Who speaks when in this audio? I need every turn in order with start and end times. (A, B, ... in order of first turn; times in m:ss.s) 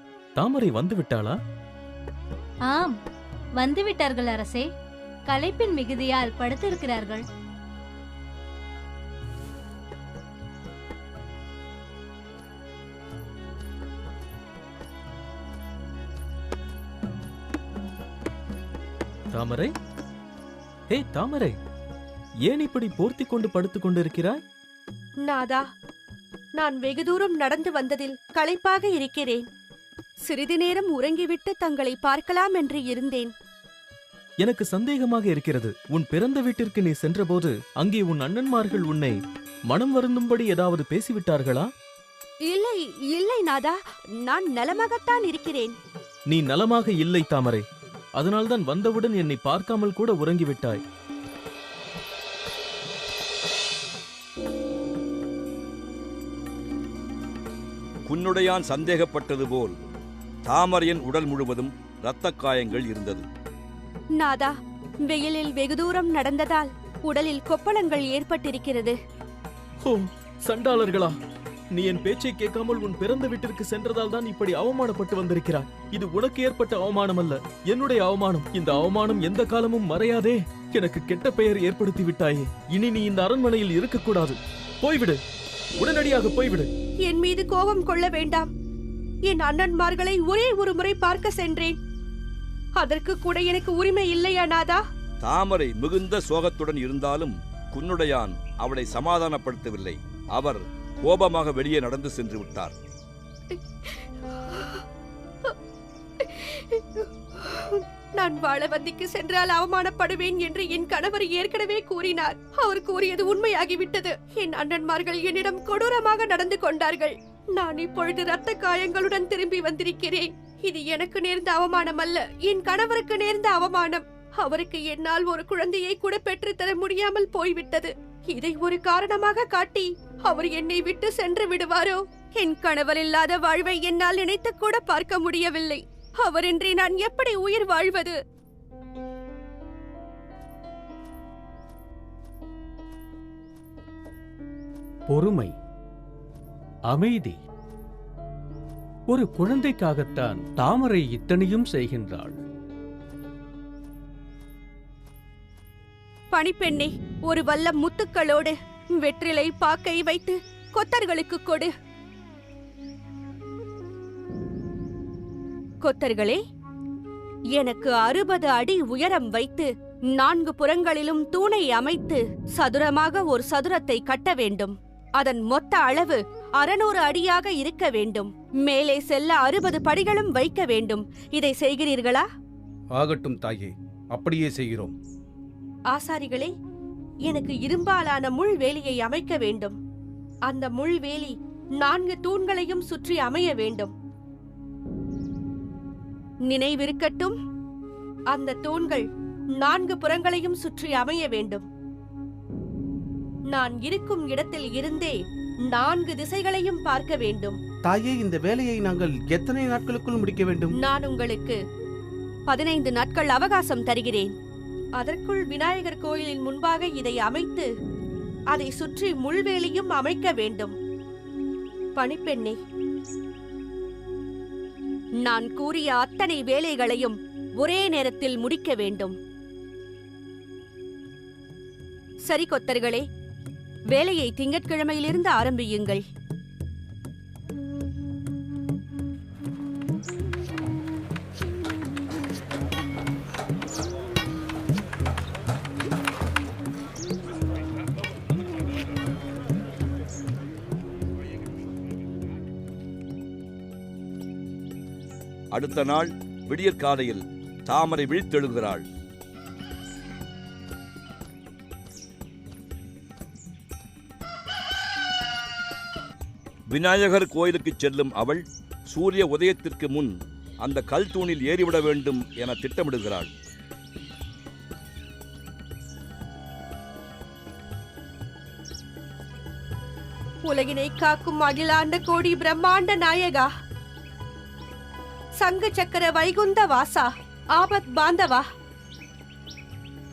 0:00.4-0:01.4 A
0:02.7-0:03.0 B
0:03.6-0:04.7 B
0:05.3-0:07.2 B
0:19.3-0:19.7 A
0:20.9-0:21.6 A
0:22.5-0:24.4 A
0:25.2-0:25.7 C
0:26.6-0:29.5 C
0:30.3-0:33.3 C
0:34.4-0:39.2 A
0:39.7-0:41.7 A
0:42.5-0:45.8 C
0:46.3-0:47.6 A
0:48.2-0:50.8 A
0:58.1-0:59.8 D
1:00.4-1:03.2 D
1:04.2-1:04.5 C
1:05.0-1:09.0 C
1:09.8-1:11.1 A
1:11.7-1:25.2 A
1:25.8-1:26.7 A
1:27.0-1:28.5 C
1:29.2-1:31.8 C
1:32.8-1:34.8 C
1:35.2-1:42.7 D
1:43.5-1:43.9 C
1:44.5-1:44.8 C
1:46.2-2:18.2 C
2:25.1-2:25.5 E
2:26.9-2:27.4 E
2:29.1-2:32.4 E
2:36.3-2:41.7 C
2:45.8-2:46.4 C
2:47.5-3:02.3 C
3:03.0-3:04.9 F
3:05.9-3:06.5 C
3:07.3-3:09.8 C
3:10.5-3:13.9 C
3:16.5-3:17.4 C
3:18.3-3:19.1 C
3:19.6-3:21.6 C
3:23.5-3:27.6 C
3:27.8-3:30.7 F
3:30.8-3:31.6 C
3:32.5-3:34.3 C
3:35.0-3:37.7 C
3:38.5-3:40.7 C
3:42.0-3:42.6 C
3:45.2-3:49.2 C
3:52.3-3:53.0 C
3:53.9-3:56.0 C
4:15.5-4:18.8 D
4:26.7-4:33.3 D
4:40.4-4:43.5 C
4:45.4-4:48.4 C